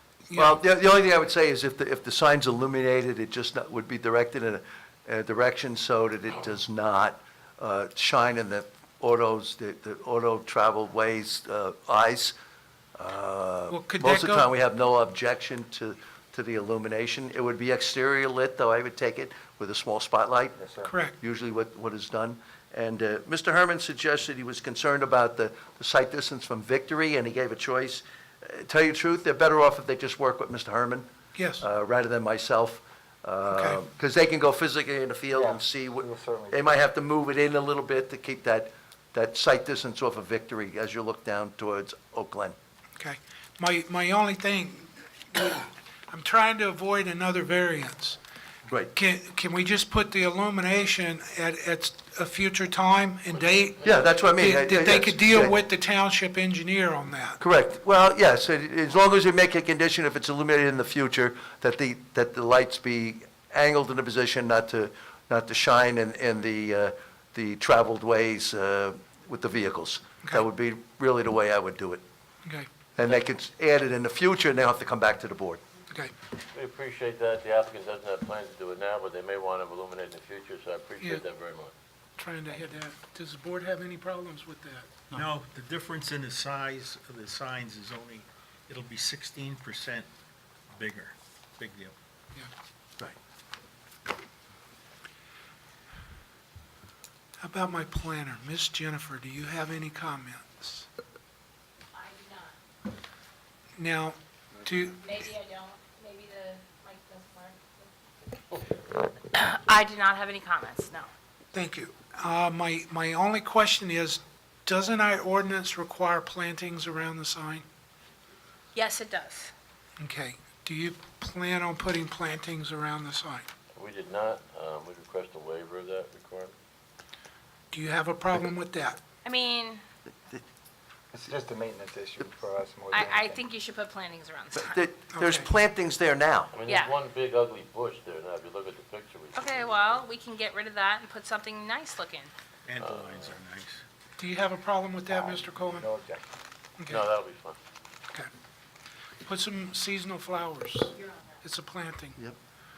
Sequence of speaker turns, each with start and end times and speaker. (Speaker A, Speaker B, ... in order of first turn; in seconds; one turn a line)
Speaker A: 0.3-0.6
Speaker B: 0.3-12.3
Speaker B: 13.0-20.6
Speaker A: 13.7-14.5
Speaker C: 20.6-20.9
Speaker A: 20.9-21.2
Speaker B: 21.2-31.1
Speaker A: 31.4-31.6
Speaker B: 31.6-42.6
Speaker A: 33.5-33.8
Speaker C: 35.3-36.8
Speaker A: 43.0-48.2
Speaker A: 49.0-57.4
Speaker B: 53.8-55.5
Speaker B: 57.4-72.0
Speaker B: 73.0-75.6
Speaker D: 76.5-81.7
Speaker A: 82.2-84.9
Speaker E: 85.1-90.1
Speaker E: 90.7-92.0
Speaker A: 97.4-100.9
Speaker F: 101.9-102.5
Speaker A: 103.8-105.0
Speaker F: 105.0-107.9
Speaker F: 109.3-111.1
Speaker A: 111.5-117.7
Speaker F: 118.7-119.5
Speaker A: 120.0-123.5
Speaker D: 123.7-126.5
Speaker A: 127.7-129.0
Speaker F: 129.2-129.8
Speaker C: 131.1-133.4
Speaker F: 132.9-134.9
Speaker B: 134.5-136.5
Speaker A: 135.1-135.5
Speaker D: 136.5-140.1
Speaker F: 136.7-137.0
Speaker F: 139.3-142.3
Speaker E: 142.7-143.8
Speaker D: 142.8-143.4
Speaker A: 144.2-145.9
Speaker C: 145.1-146.3
Speaker A: 146.8-147.0
Speaker D: 146.9-147.6
Speaker A: 149.2-152.2